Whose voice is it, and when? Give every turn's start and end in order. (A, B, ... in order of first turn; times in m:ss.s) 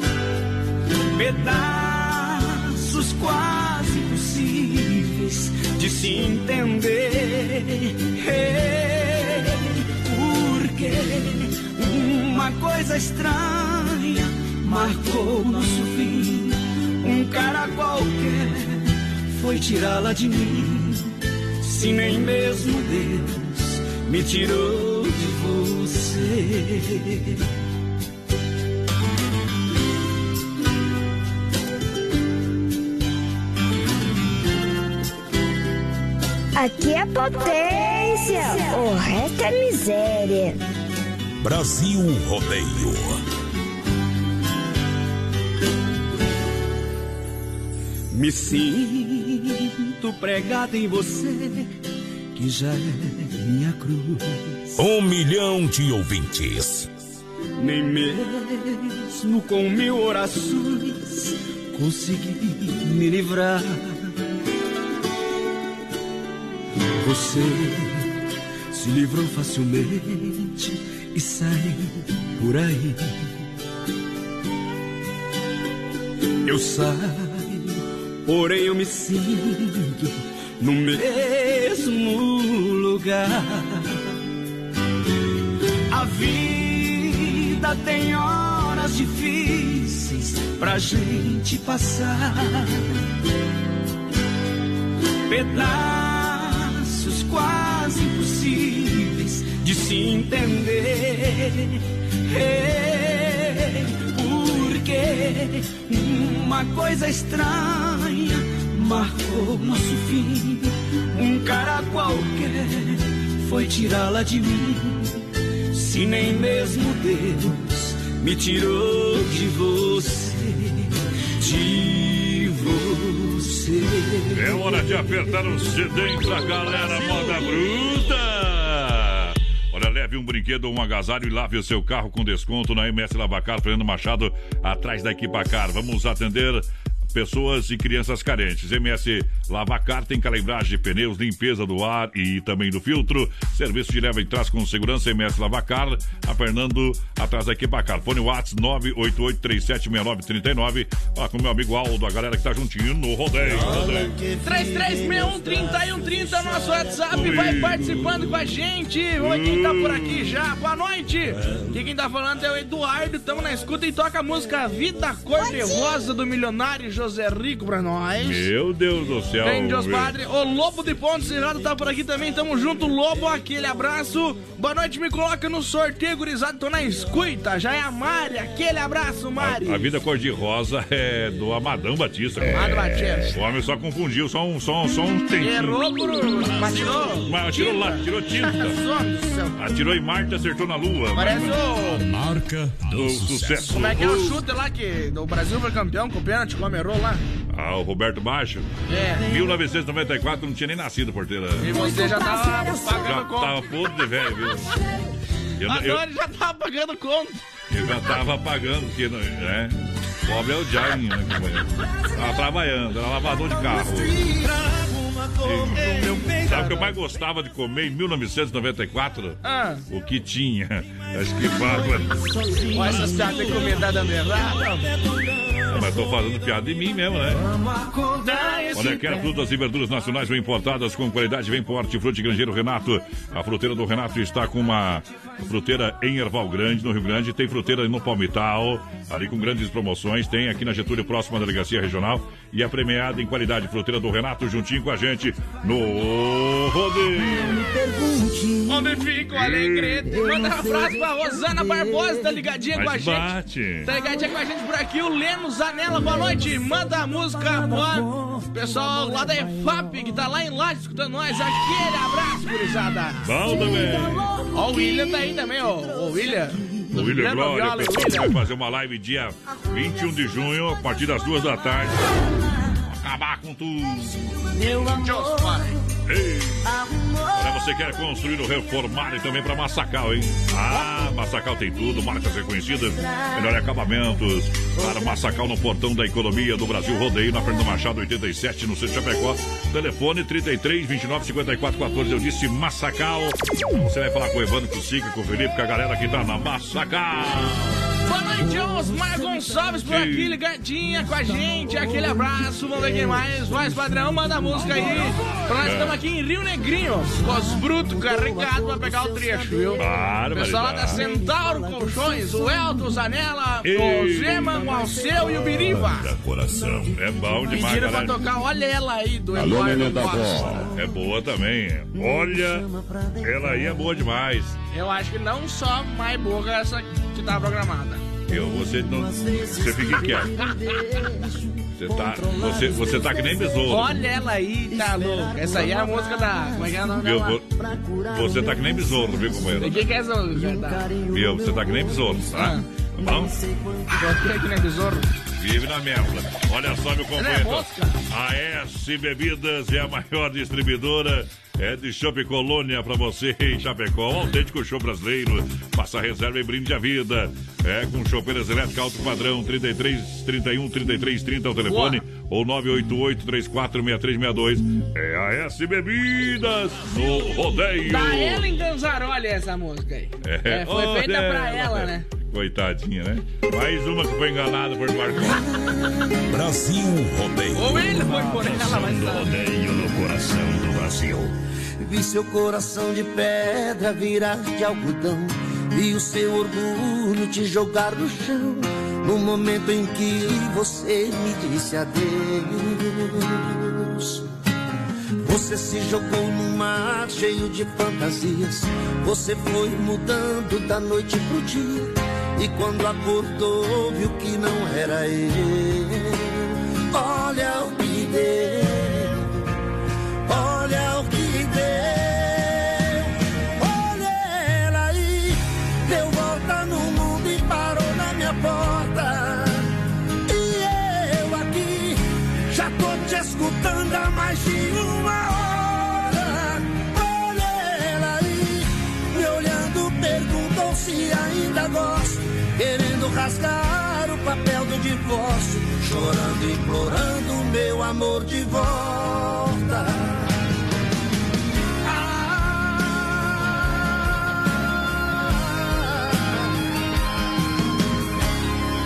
0:01.1-0:21.1 A
0:21.6-0:27.4 A
0:36.6-0:40.6 B
0:41.4-0:43.2 C
0:48.1-0:51.8 A
0:52.3-0:54.6 A
0:54.8-0:56.9 C
0:57.6-1:04.1 A
1:07.0-1:08.1 A
1:08.7-1:13.2 A
1:16.4-1:24.0 A
1:25.9-1:32.8 A
1:35.3-1:55.2 A
1:55.7-2:04.8 A
2:04.3-2:34.1 D
2:33.5-2:35.7 E
2:34.4-2:48.5 F
2:37.1-2:38.2 D
2:39.2-2:40.3 D
2:48.2-2:50.2 D
2:49.4-2:59.8 F
2:59.4-3:05.8 D
3:02.4-3:03.4 F
3:05.4-3:09.6 F
3:07.1-3:08.8 D
3:09.6-3:11.8 D
3:11.2-3:12.0 F
3:11.9-3:13.7 G
3:12.9-3:14.4 D
3:13.7-3:17.2 F
3:17.5-3:22.0 D
3:18.9-3:19.3 F
3:21.6-3:23.6 F
3:22.9-3:24.8 D
3:25.6-3:26.0 D
3:25.7-3:27.4 F
3:27.7-3:34.2 D
3:35.4-3:42.2 D
3:35.8-3:36.6 F
3:39.4-3:39.8 F
3:42.7-3:44.7 F
3:42.9-3:45.0 A
3:45.7-3:47.5 D
3:48.2-3:49.2 F
3:48.7-4:07.7 D
4:07.2-4:08.8 A
4:08.7-4:13.3 F
4:09.3-4:10.1 D
4:10.2-4:10.9 A
4:12.7-4:13.9 D
4:13.8-4:23.3 F
4:23.2-4:24.4 D
4:24.5-4:28.4 F
4:26.9-4:32.1 D
4:32.9-4:34.3 D
4:34.8-4:35.7 F
4:36.1-4:36.8 D
4:37.3-4:57.8 D
4:58.0-5:16.1 F
4:59.8-5:00.4 D
5:05.6-5:06.0 D
5:07.8-5:08.2 A
5:09.8-5:11.0 D
5:13.6-5:18.3 D
5:17.5-5:20.5 F
5:19.4-5:20.7 G
5:20.7-5:22.7 D
5:22.2-5:22.9 E
5:23.2-5:24.6 D
5:24.7-5:28.0 F
5:28.3-5:30.4 D
5:29.2-5:30.5 E
5:31.8-5:33.9 D
5:33.7-5:37.4 F
5:37.0-5:37.6 D
5:38.1-5:39.9 D
5:38.7-5:39.4 E
5:39.6-5:40.9 F
5:41.1-5:43.3 D
5:42.3-5:42.6 F
5:43.9-5:45.1 F
5:45.4-6:08.5 D
5:47.2-5:48.0 F
6:01.7-6:02.0 F
6:07.9-6:12.0 F
6:10.2-6:15.4 D
6:16.3-6:18.0 C
6:17.6-6:19.3 F
6:18.1-6:21.3 G
6:21.8-6:34.2 E
6:35.2-6:49.3 E
6:50.3-6:59.7 E
7:00.3-7:20.3 E
7:21.8-7:24.1 E
7:25.1-7:26.3 E